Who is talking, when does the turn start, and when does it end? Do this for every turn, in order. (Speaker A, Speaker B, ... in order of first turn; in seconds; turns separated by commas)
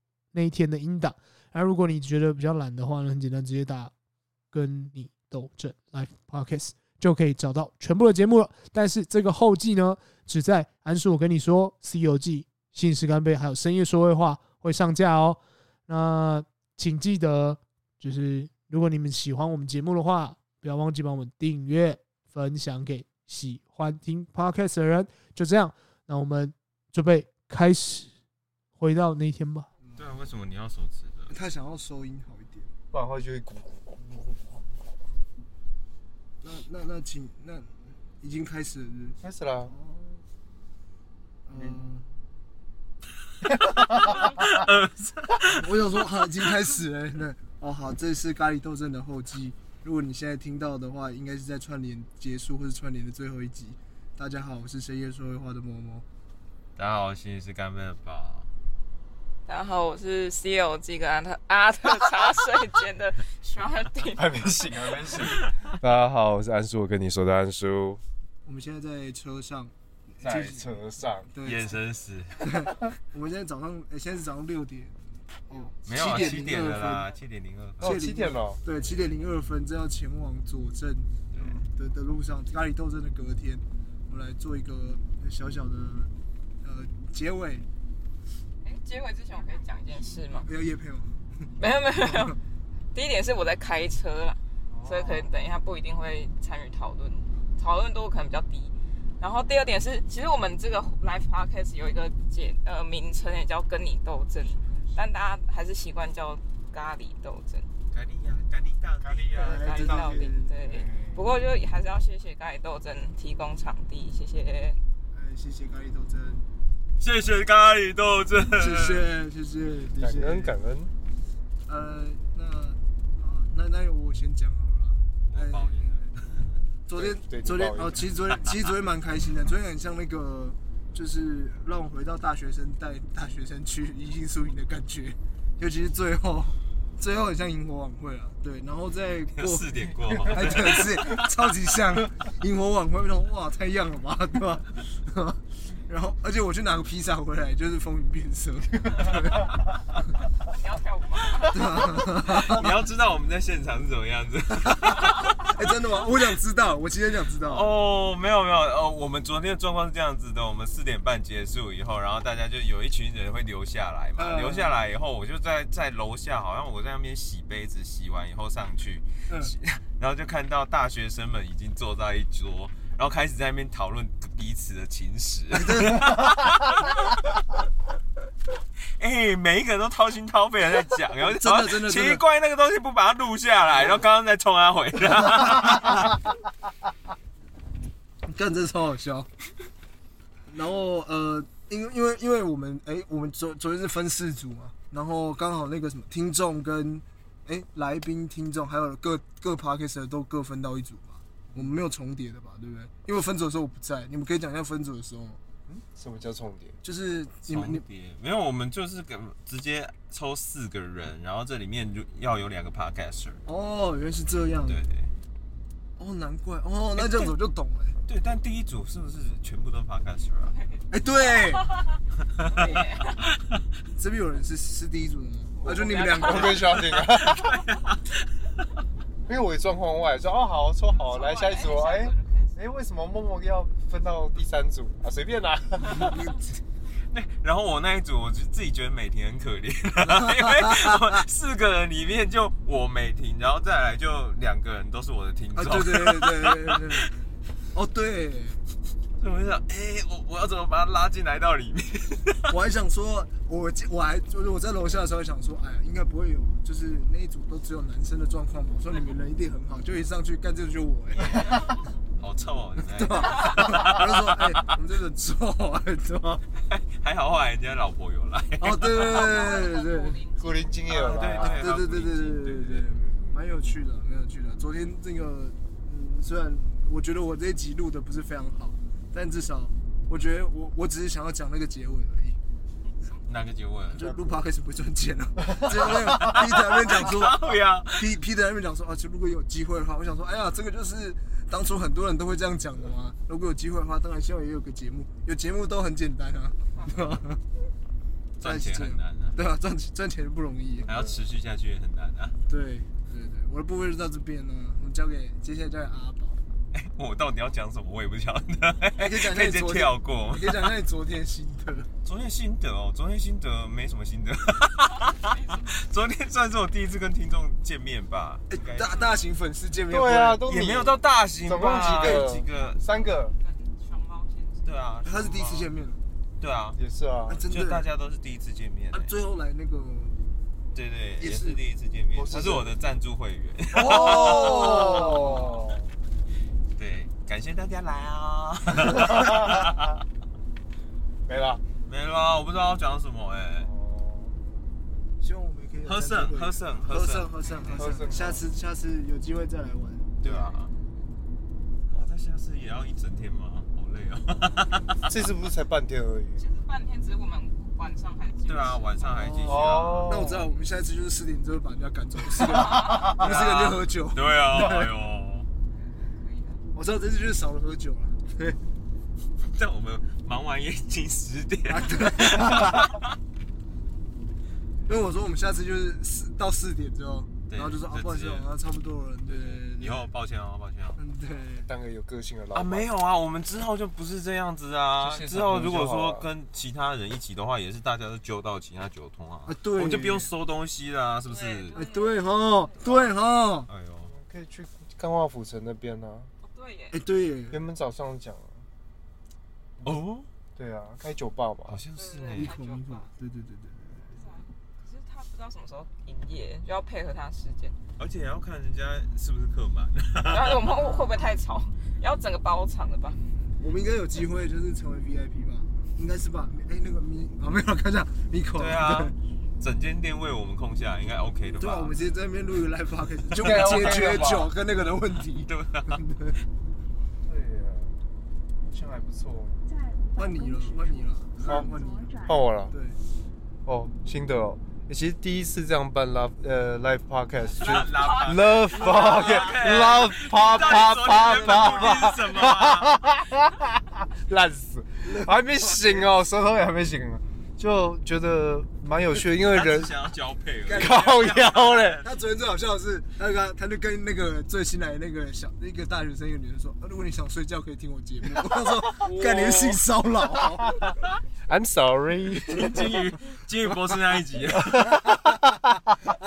Speaker A: 0.3-3.9, Speaker A: 4.5-28.1, Speaker A: 28.8-29.7, Speaker B: 30.0-31.3, Speaker C: 31.3-32.7, Speaker D: 32.9-34.6, Speaker C: 36.4-40.2, Speaker D: 39.2-39.7, Speaker C: 41.5-42.0, Speaker D: 43.5-44.4, Speaker B: 43.6-46.0, Speaker C: 45.5-56.0, Speaker B: 56.8-58.5, Speaker E: 59.5-64.5, Speaker D: 64.1-68.0, Speaker B: 65.2-65.7, Speaker C: 68.5-71.8, Speaker D: 70.2-71.3, Speaker B: 71.4-72.7, Speaker C: 72.4-77.1, Speaker B: 75.9-78.0, Speaker D: 77.8-78.6, Speaker C: 77.8-86.1, Speaker B: 81.3-81.6, Speaker C: 86.6-87.7, Speaker E: 88.6-90.5, Speaker C: 90.4-91.5, Speaker E: 91.6-92.4, Speaker E: 92.9-107.7, Speaker D: 94.7-95.3, Speaker B: 107.9-109.8, Speaker D: 109.0-111.3, Speaker C: 109.4-110.6, Speaker E: 109.5-114.8, Speaker C: 115.1-116.4, Speaker B: 117.0-119.1, Speaker C: 118.6-120.5, Speaker D: 120.0-120.9, Speaker C: 121.7-126.1, Speaker B: 125.3-126.2, Speaker C: 126.9-149.5, Speaker D: 126.9-128.1, Speaker B: 139.4-141.4, Speaker E: 150.4-151.7, Speaker C: 151.5-152.7, Speaker B: 152.0-155.5, Speaker C: 155.5-157.7, Speaker B: 157.4-177.1, Speaker C: 164.2-164.8, Speaker C: 175.5-176.2, Speaker B: 179.0-186.1, Speaker C: 181.2-182.2, Speaker C: 185.5-186.0, Speaker C: 188.3-189.3, Speaker C: 190.5-205.4, Speaker D: 205.7-206.8, Speaker C: 206.8-207.8, Speaker B: 207.5-213.4, Speaker C: 213.5-214.8, Speaker B: 214.7-215.1, Speaker C: 216.0-218.0, Speaker B: 217.0-217.3, Speaker B: 218.1-220.5, Speaker E: 220.5-220.8, Speaker C: 220.9-221.7, Speaker B: 222.4-223.6, Speaker E: 222.5-223.2, Speaker C: 224.0-226.6, Speaker E: 225.6-226.8, Speaker D: 225.7-227.5, Speaker B: 226.5-228.2, Speaker D: 229.3-236.2, Speaker E: 230.9-232.6, Speaker C: 235.9-236.5, Speaker B: 237.1-247.0, Speaker C: 240.1-241.0, Speaker C: 245.6-247.1, Speaker C: 247.7-248.6, Speaker B: 249.2-252.5, Speaker C: 252.5-261.7, Speaker B: 262.2-264.7, Speaker C: 262.8-266.4, Speaker B: 266.7-269.2, Speaker C: 268.6-270.2, Speaker E: 269.0-270.4, Speaker D: 270.4-271.8, Speaker B: 270.9-272.9, Speaker C: 271.0-282.4, Speaker D: 272.9-273.4, Speaker B: 283.3-284.1, Speaker C: 283.9-297.4, Speaker D: 284.0-284.4, Speaker D: 285.5-286.1, Speaker B: 285.9-288.1, Speaker B: 298.4-299.4, Speaker C: 298.4-300.9, Speaker D: 300.9-301.2, Speaker B: 300.9-302.4, Speaker C: 302.5-306.4, Speaker B: 306.7-310.7, Speaker C: 309.0-311.9, Speaker B: 312.0-319.0, Speaker E: 315.1-315.7, Speaker C: 318.5-320.4, Speaker D: 319.9-323.4, Speaker B: 320.4-322.8, Speaker C: 321.8-322.3, Speaker E: 323.4-324.7, Speaker B: 324.6-325.7, Speaker C: 325.0-326.0, Speaker B: 326.4-326.8, Speaker D: 326.8-327.4, Speaker C: 327.3-327.9, Speaker B: 327.5-329.1, Speaker C: 328.9-330.2, Speaker B: 330.7-335.4, Speaker C: 331.2-331.6, Speaker D: 332.1-332.7, Speaker C: 333.7-335.6, Speaker D: 333.8-335.9, Speaker B: 336.8-339.9, Speaker D: 339.0-339.8, Speaker D: 341.3-341.6, Speaker B: 341.9-343.7, Speaker D: 343.6-344.3, Speaker C: 345.2-350.5, Speaker B: 345.8-347.9, Speaker D: 347.8-348.4, Speaker B: 350.2-350.7, Speaker B: 351.9-355.1, Speaker D: 355.1-356.4, Speaker E: 356.4-359.0, Speaker B: 358.5-360.1, Speaker C: 359.1-364.9, Speaker D: 359.5-360.5, Speaker E: 362.7-363.1, Speaker B: 363.1-365.5, Speaker E: 366.1-366.6, Speaker C: 366.7-368.6, Speaker B: 369.5-373.0, Speaker C: 371.7-372.9, Speaker C: 374.9-380.1, Speaker B: 377.5-378.5, Speaker B: 379.3-381.0, Speaker C: 381.0-381.7, Speaker D: 381.6-382.9, Speaker B: 382.5-391.8, Speaker D: 385.0-386.3, Speaker C: 389.5-390.3, Speaker E: 391.3-392.8, Speaker C: 391.7-393.7, Speaker B: 393.7-394.1, Speaker D: 394.1-396.3, Speaker E: 396.4-397.0, Speaker C: 396.9-397.6, Speaker D: 397.5-398.6, Speaker B: 399.8-400.3, Speaker D: 400.6-401.8, Speaker B: 401.7-402.5, Speaker E: 402.0-403.1, Speaker C: 402.3-404.1, Speaker E: 404.2-407.8, Speaker B: 408.0-410.7, Speaker E: 410.2-413.2, Speaker C: 413.5-419.1, Speaker B: 418.6-422.0, Speaker C: 421.6-426.4, Speaker B: 423.3-424.5, Speaker D: 423.4-424.5, Speaker B: 425.4-426.0, Speaker D: 427.2-427.9, Speaker D: 428.6-429.6, Speaker C: 430.2-432.2, Speaker D: 431.4-431.7, Speaker D: 432.2-432.7, Speaker C: 432.7-433.0, Speaker D: 433.7-449.9, Speaker B: 437.5-443.0, Speaker E: 437.9-439.5, Speaker C: 439.0-439.3, Speaker C: 440.8-442.1, Speaker C: 445.1-446.1, Speaker B: 449.2-452.1, Speaker C: 450.7-451.4, Speaker D: 450.7-452.0, Speaker C: 452.0-460.8, Speaker B: 459.0-459.8, Speaker D: 461.5-462.9, Speaker B: 462.4-465.0, Speaker D: 464.6-465.9